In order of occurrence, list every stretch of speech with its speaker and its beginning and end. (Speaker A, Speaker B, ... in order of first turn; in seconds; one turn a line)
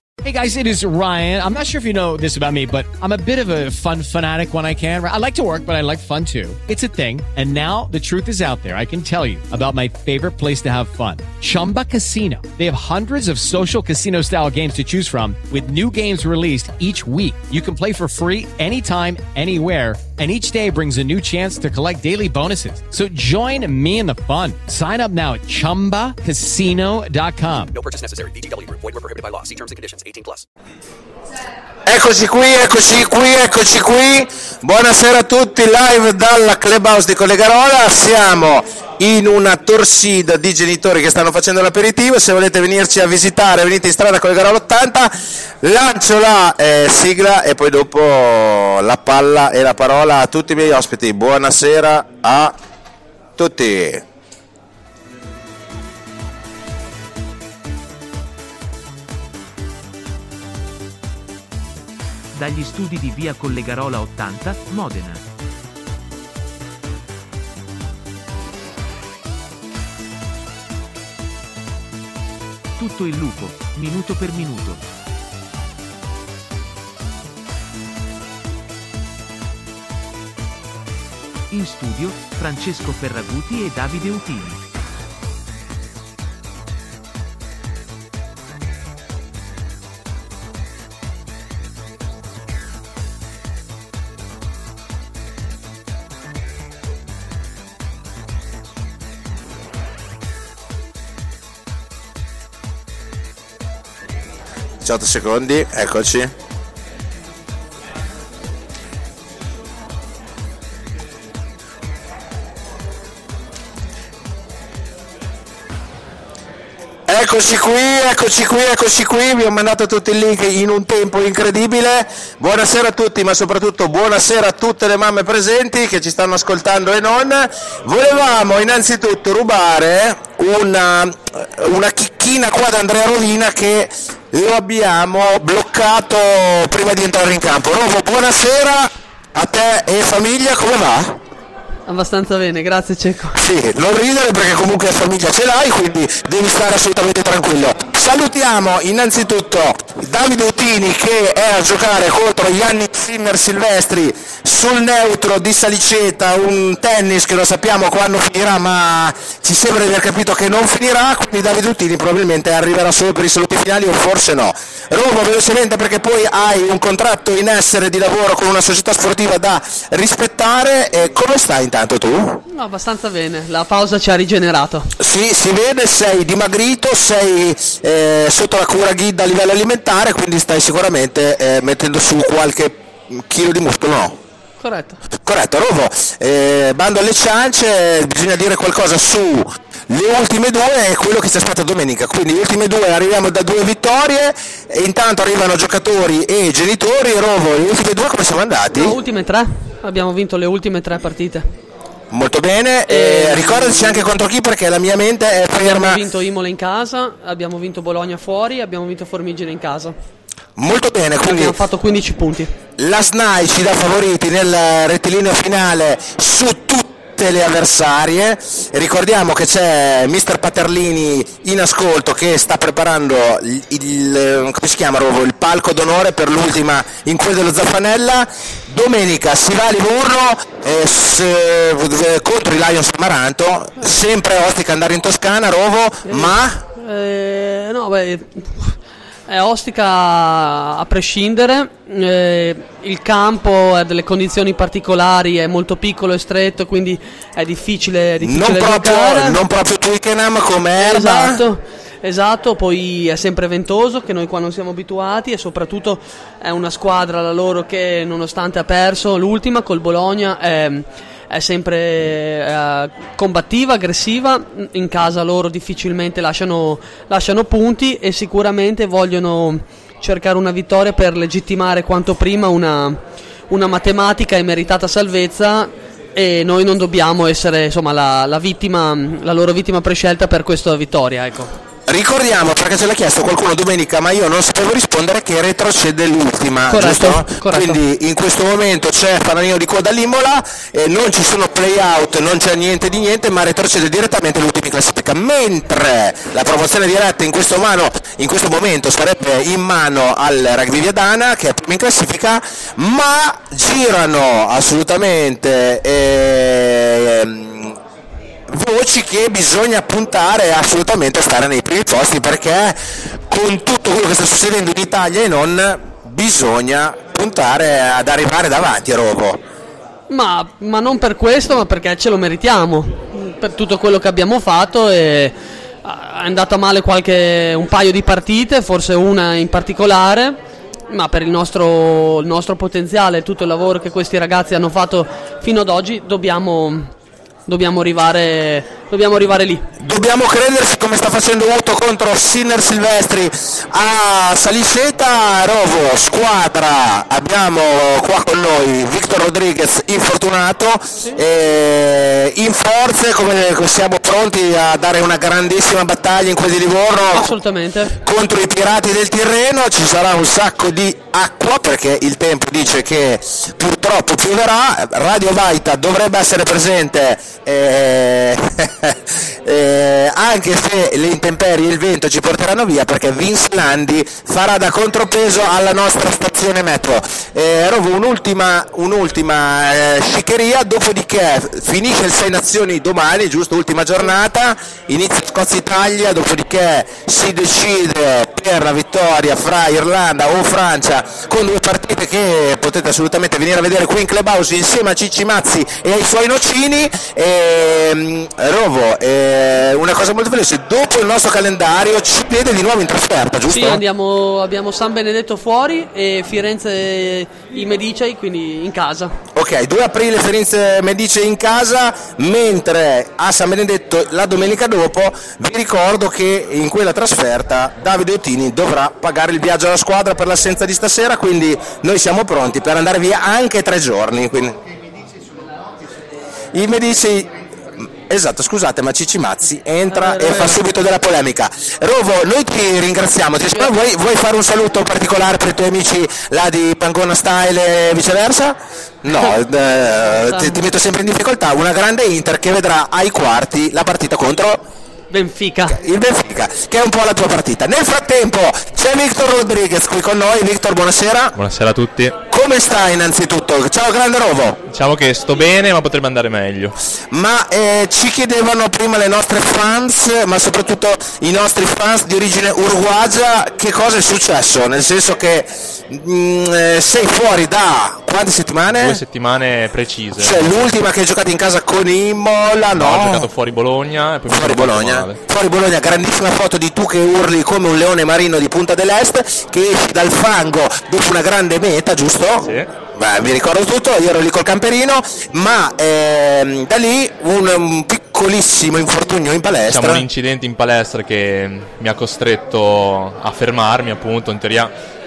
Speaker A: 0.2-27.7
Speaker B: 27.7-30.4
Speaker C: 31.9-45.1
Speaker C: 45.6-52.5
Speaker C: 53.4-54.0
Speaker D: 62.3-65.2
Speaker D: 72.8-74.8
Speaker D: 81.5-84.6
Speaker C: 104.8-106.3
Speaker C: 117.1-141.2
Speaker E: 141.9-143.4
Speaker C: 143.4-172.4
Speaker E: 172.5-174.9
Speaker C: 175.0-184.2
Speaker E: 184.6-185.0
Speaker C: 185.2-198.9
Speaker E: 198.7-201.4
Speaker C: 202.1-206.0
Speaker E: 202.9-204.1
Speaker E: 205.6-209.9
Speaker C: 210.6-211.6
Speaker E: 211.2-212.5
Speaker C: 212.8-236.6
Speaker E: 236.1-238.8
Speaker E: 239.3-249.4
Speaker C: 248.2-251.4
Speaker E: 250.8-273.0
Speaker E: 273.5-281.5
Speaker C: 281.9-307.8
Speaker E: 286.7-287.8
Speaker C: 308.5-319.4
Speaker E: 320.1-330.4
Speaker E: 330.9-336.9
Speaker E: 337.5-339.7
Speaker C: 339.8-357.3
Speaker E: 357.1-357.9
Speaker C: 358.0-403.8
Speaker E: 403.5-409.1
Speaker C: 409.3-424.6
Speaker C: 426.5-427.3
Speaker C: 428.1-444.6
Speaker E: 429.9-430.6
Speaker E: 440.3-440.6
Speaker E: 445.1-445.8
Speaker C: 445.7-451.3
Speaker F: 451.3-452.2
Speaker C: 452.3-454.6
Speaker F: 454.7-456.8
Speaker C: 457.1-469.0
Speaker F: 468.7-470.7
Speaker C: 470.2-473.3
Speaker F: 472.7-475.2
Speaker C: 474.3-490.0
Speaker F: 482.4-482.7
Speaker F: 489.7-494.7